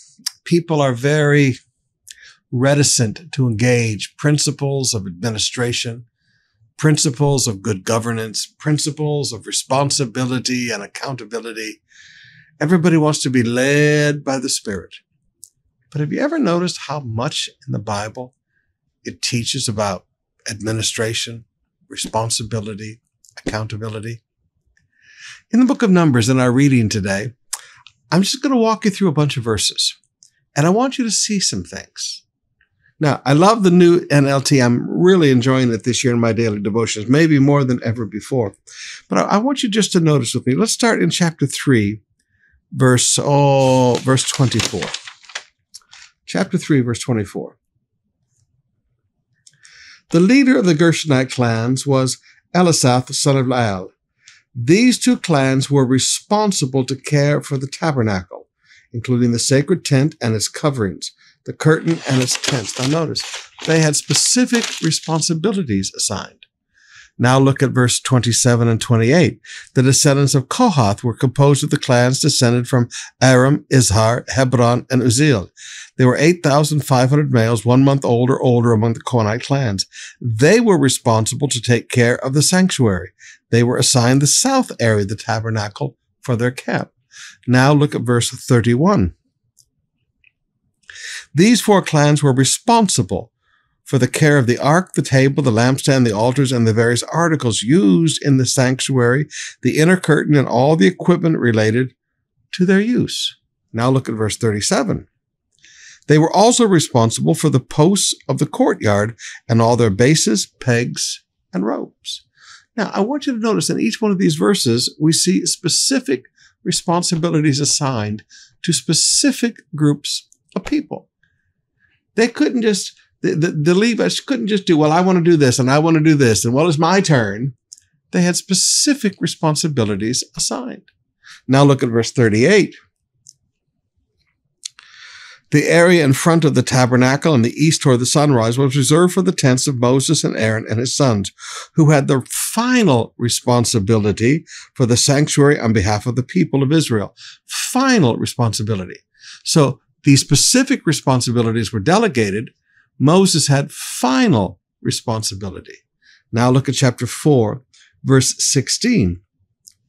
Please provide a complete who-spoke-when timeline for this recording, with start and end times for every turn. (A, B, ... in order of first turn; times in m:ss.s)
0:00.4-0:01.6 A
0:02.5-0:06.0 A
0:06.8-0:11.8 A
0:12.6-0:15.0 A
0:15.9-0:18.3 A
0:19.0-0:24.2 A
0:25.5-0:27.3 A
0:28.1-0:30.0 A
0:30.5-0:32.2 A
0:33.0-0:38.6 A
0:39.1-0:42.0 A
0:42.7-0:44.9 A
0:46.3-0:47.6 A
0:50.1-0:53.9 A
0:54.5-1:06.4 A
1:07.2-1:26.9 A
1:27.5-1:29.1 A
1:31.3-1:33.3 A
1:33.8-1:41.9 A
1:42.5-1:45.1 A
1:46.1-1:52.2 A
1:52.8-2:01.1 A
2:02.1-2:07.5 A
2:08.1-2:10.9 A
2:11.5-2:12.8 A
2:15.5-2:39.2 A